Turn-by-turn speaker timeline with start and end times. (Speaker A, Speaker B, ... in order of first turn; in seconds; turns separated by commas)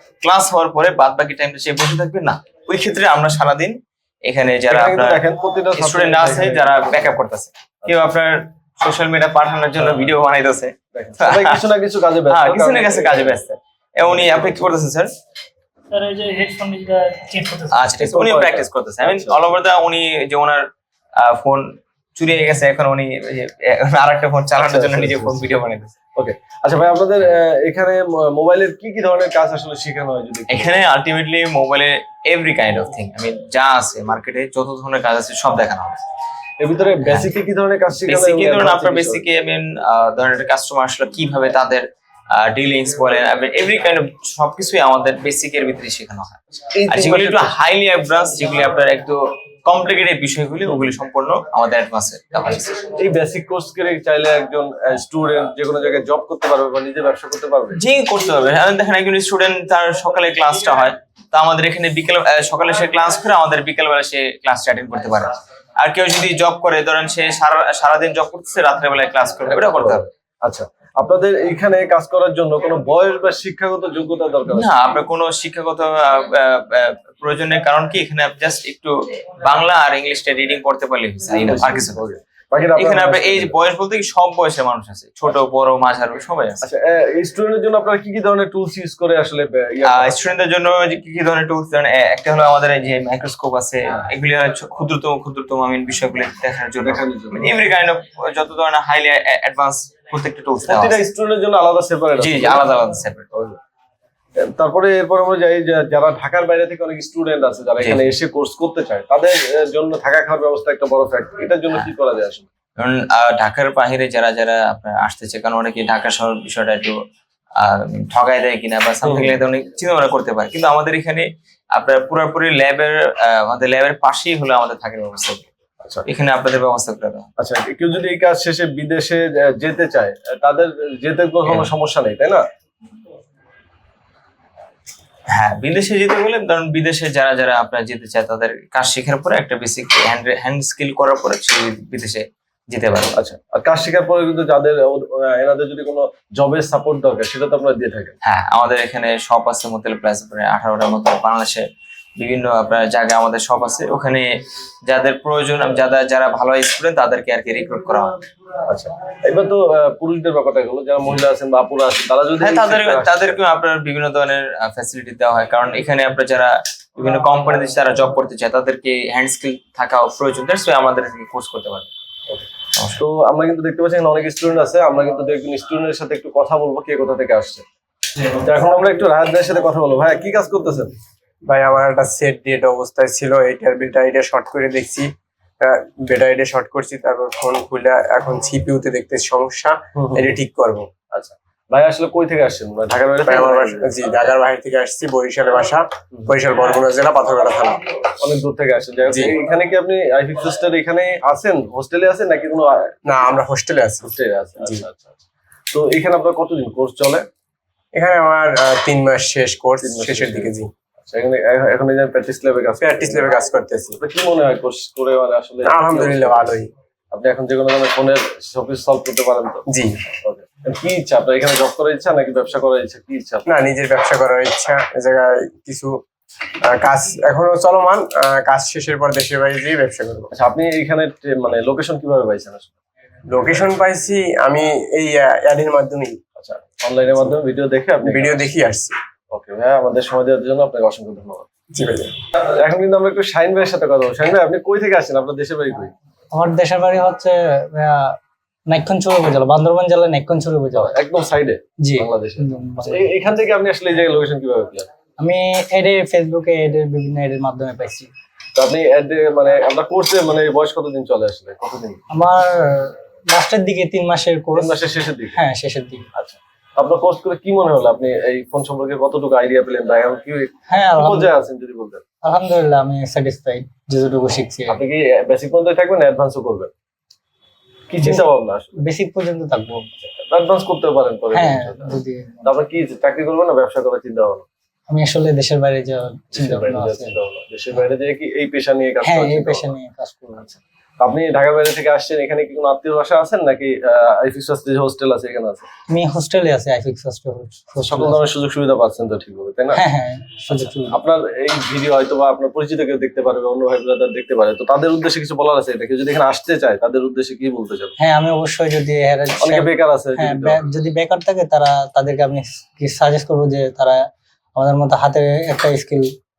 Speaker A: 0.2-5.2, Speaker B: 4.7-7.2, Speaker A: 5.8-11.6, Speaker B: 10.9-13.4, Speaker A: 12.3-15.1, Speaker C: 15.9-17.8, Speaker A: 17.7-25.9, Speaker B: 18.0-19.4, Speaker B: 24.6-25.4, Speaker B: 26.2-30.8, Speaker A: 30.5-36.0, Speaker B: 36.6-39.3, Speaker A: 37.0-37.3, Speaker A: 38.0-52.8, Speaker B: 46.7-47.6, Speaker B: 53.0-57.8, Speaker A: 57.8-70.1, Speaker B: 69.6-74.7, Speaker A: 74.5-82.0, Speaker B: 81.5-83.5, Speaker A: 82.8-86.7, Speaker B: 86.6-90.2, Speaker A: 89.8-101.0, Speaker B: 96.8-97.5, Speaker B: 100.7-102.7, Speaker A: 102.2-103.3, Speaker B: 104.4-112.5, Speaker A: 112.8-117.0, Speaker A: 117.6-125.5, Speaker B: 119.0-119.4, Speaker A: 126.0-127.3, Speaker B: 127.4-132.4, Speaker A: 131.4-131.7, Speaker A: 135.3-143.2, Speaker B: 143.2-148.2, Speaker A: 148.2-151.6, Speaker A: 152.2-154.3, Speaker A: 154.9-158.2, Speaker B: 158.7-163.4, Speaker A: 162.4-171.9, Speaker A: 172.8-173.0, Speaker B: 173.0-177.6, Speaker B: 178.4-180.9, Speaker D: 181.5-185.1, Speaker D: 185.6-190.9, Speaker B: 190.0-190.4, Speaker B: 191.1-193.9, Speaker D: 193.2-197.8, Speaker B: 198.2-203.0, Speaker D: 199.1-199.3, Speaker D: 203.1-204.1, Speaker B: 204.0-205.2, Speaker B: 205.7-207.3, Speaker D: 207.9-210.7, Speaker B: 209.8-213.3, Speaker D: 212.8-214.0, Speaker B: 214.0-216.6, Speaker D: 215.7-216.7, Speaker B: 217.1-219.6, Speaker D: 219.7-219.9, Speaker B: 220.2-223.5, Speaker D: 223.5-226.0, Speaker D: 226.7-230.3, Speaker B: 230.3-232.7, Speaker D: 233.3-236.2, Speaker B: 236.4-238.5, Speaker D: 238.1-239.0, Speaker B: 239.3-241.5, Speaker D: 241.7-242.1, Speaker B: 242.6-245.9, Speaker C: 246.3-248.2, Speaker C: 248.7-250.9, Speaker B: 250.7-254.9, Speaker C: 251.8-253.1, Speaker C: 255.2-258.1, Speaker B: 258.6-262.0, Speaker C: 262.1-264.8, Speaker B: 264.6-265.4, Speaker C: 265.3-266.1, Speaker B: 266.1-272.0, Speaker C: 270.7-271.4, Speaker C: 272.2-274.8, Speaker B: 274.7-276.7, Speaker B: 277.9-278.8, Speaker C: 278.0-279.9, Speaker B: 280.0-284.5, Speaker C: 281.3-282.5, Speaker C: 284.9-287.2, Speaker B: 286.3-289.7, Speaker C: 289.0-290.5, Speaker B: 290.4-295.6, Speaker C: 295.9-298.2, Speaker B: 297.9-299.8, Speaker C: 299.7-301.0, Speaker B: 300.5-307.9, Speaker C: 308.0-314.0, Speaker B: 309.4-310.6, Speaker C: 314.6-316.1